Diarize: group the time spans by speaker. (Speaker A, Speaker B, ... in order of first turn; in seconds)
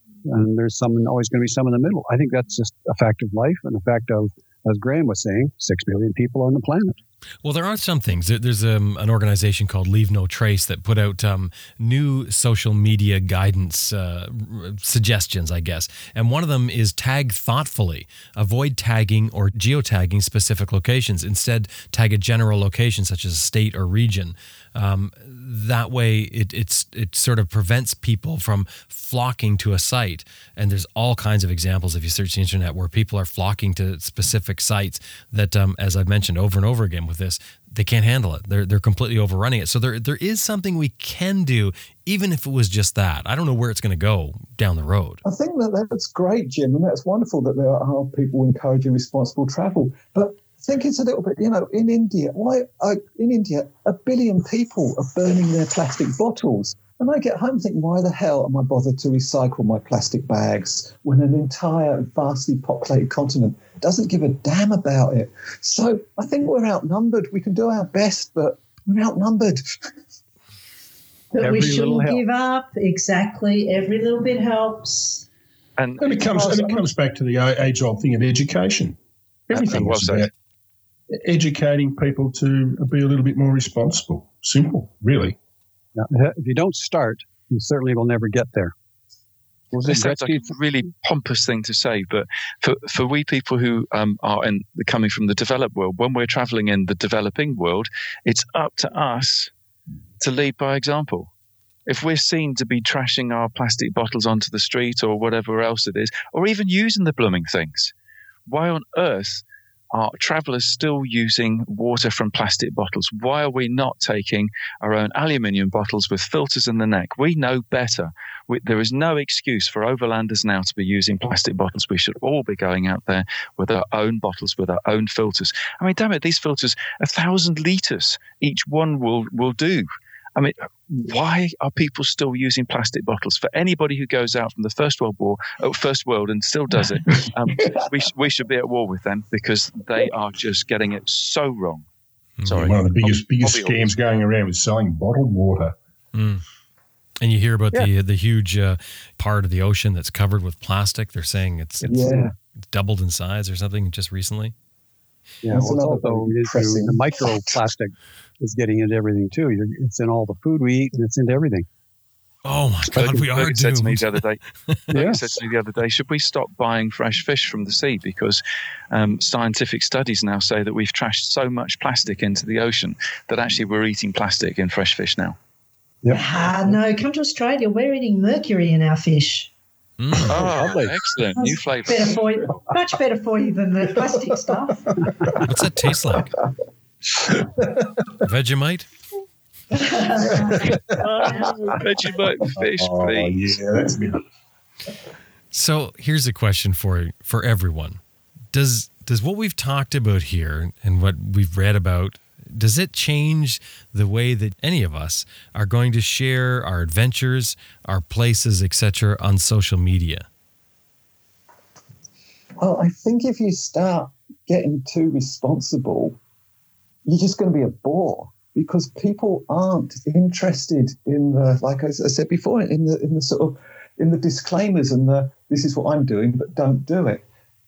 Speaker A: 0.2-7.0, 71.4-72.2, 86.0-88.7, 89.7-90.5, 155.4-161.7, 164.9-165.2, 180.3-180.9
Speaker B: 7.4-45.2, 146.1-146.4, 147.2-154.5, 162.4-164.8, 180.0-180.5, 185.3-186.4, 188.2-188.9, 195.5-198.0, 198.5-210.3
Speaker C: 45.2-69.6, 137.2-137.7, 151.8-152.3, 155.5-157.1, 212.6-216.2, 217.1-227.2
Speaker D: 71.3-75.2, 176.1-179.5, 181.4-185.3, 189.7-191.8
Speaker E: 75.8-76.9, 79.5-80.3, 89.8-99.5, 100.2-101.3, 101.9-107.9, 108.5-141.8, 142.5-143.9, 162.9-168.4, 168.9-175.4, 180.3-182.2, 191.0-193.6
Speaker F: 76.0-79.0, 79.5-80.3, 81.1-85.4, 142.5-145.8, 187.2-187.8, 190.5-191.1, 192.6-194.2